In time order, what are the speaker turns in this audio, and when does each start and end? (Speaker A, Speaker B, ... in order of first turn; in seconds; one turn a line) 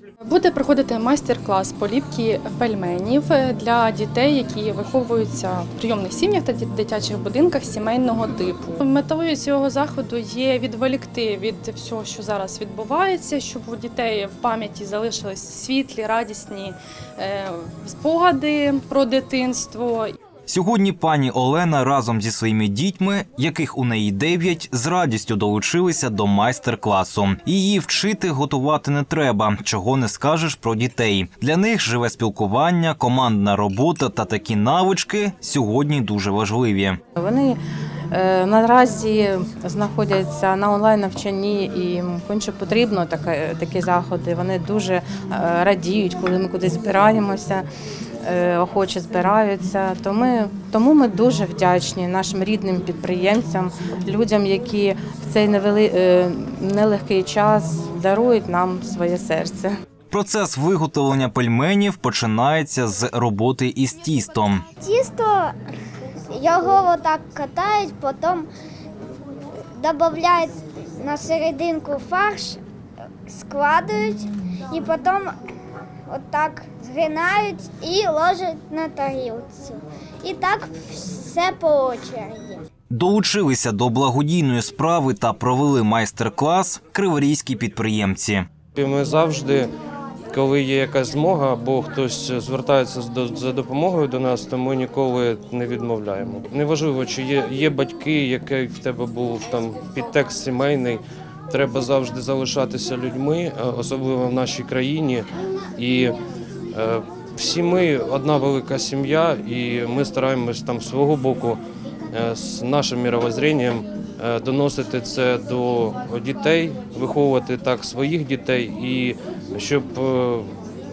Speaker A: 0.2-20.1
Speaker B: 20.5-37.0
Speaker C: 37.2-37.6
Speaker C: 38.1-47.6
Speaker C: 48.2-59.7
Speaker B: 60.1-64.6
Speaker D: 64.8-65.5
Speaker D: 66.3-68.5
Speaker D: 69.8-72.6
Speaker D: 73.3-75.3
Speaker D: 76.1-82.6
Speaker B: 82.9-88.5
Speaker E: 88.8-89.7
Speaker E: 90.3-106.2
Speaker E: 106.7-111.6
Speaker E: 112.1-120.5